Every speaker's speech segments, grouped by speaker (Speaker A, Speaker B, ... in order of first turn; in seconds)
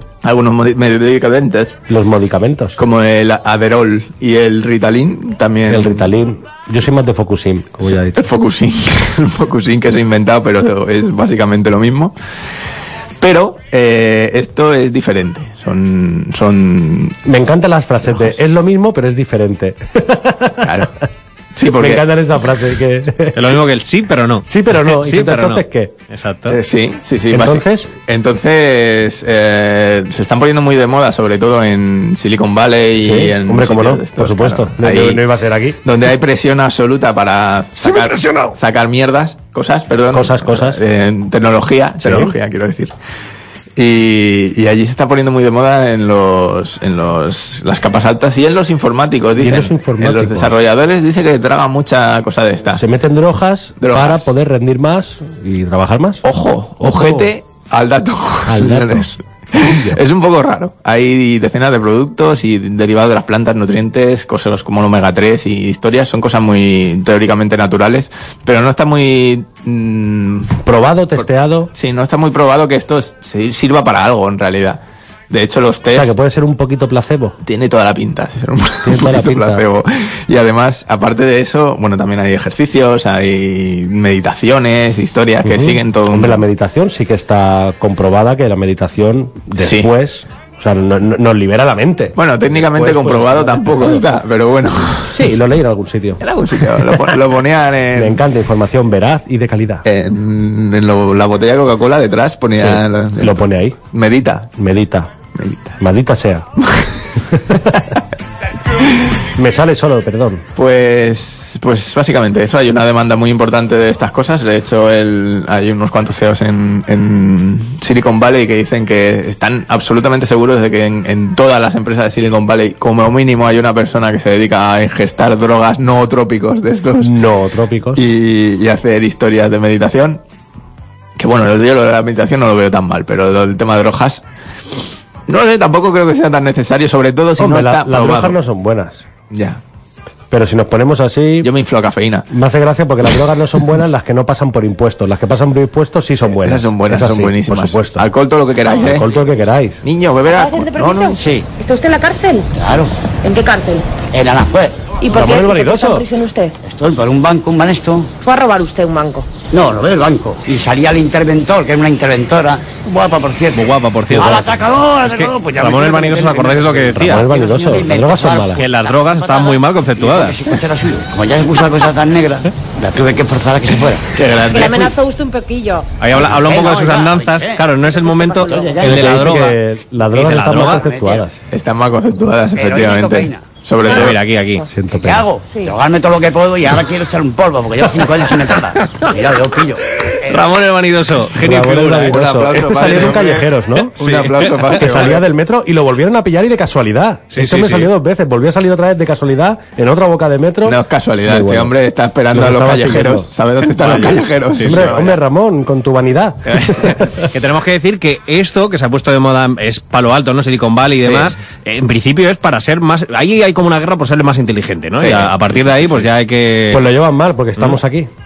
Speaker A: 0.2-1.8, 2.8-6.1, 7.8-12.2, 13.2-17.2, 20.6-20.9, 21.6-22.0, 26.5-35.2, 35.8-42.9, 43.8-52.8, 53.8-54.3, 56.2-70.6, 71.7-76.1, 77.4-86.4, 89.6-89.9, 92.2-95.2, 96.2-98.2, 99.8-104.5, 105.4-105.8, 110.6-127.1, 128.0-130.2, 131.2-134.2, 135.3-138.4, 139.3-139.6, 141.4-142.3, 146.3-149.1, 149.8-151.2, 174.1-174.9, 181.5-184.2, 192.1-195.2, 200.7-205.2, 215.0-216.1
Speaker B: 1.9-2.8, 5.7-8.2, 17.2-20.9, 21.8-23.4, 24.5-25.9, 27.3-27.9, 33.0-35.8, 38.1-38.5, 40.1-40.8, 42.0-42.4, 49.4-50.6, 52.8-56.2, 56.8-57.3, 58.5-60.0, 70.7-71.7, 75.9-77.4, 78.8-79.6, 85.4-94.0, 95.1-97.1, 98.0-99.8, 102.6-103.8, 104.6-105.1, 105.8-106.5, 107.3-108.0, 109.4-110.4, 127.0-128.1, 137.4-139.1, 140.3-141.5, 142.3-148.1, 148.8-149.8, 155.1-156.1, 166.9-168.6, 178.8-181.4, 184.7-185.3, 191.4-193.9, 194.8-201.7, 202.3-203.3, 204.6-207.2, 216.7-218.1
Speaker C: 23.3-26.6, 163.6-167.3, 168.6-170.4, 176.0-179.6, 180.1-180.8, 183.8-184.7, 190.3-192.2, 194.0-195.1, 197.3-197.9, 203.8-204.9, 207.3-216.8
Speaker D: 150.4-151.0, 151.6-152.5, 153.2-153.8, 155.0-156.5, 158.2-159.3, 174.6-175.9, 178.0-178.6
Speaker E: 151.2-151.5, 152.5-152.9, 154.1-155.0, 156.6-158.2, 159.5-174.1, 176.1-178.8, 180.5-181.3, 182.6-183.5, 184.9-190.4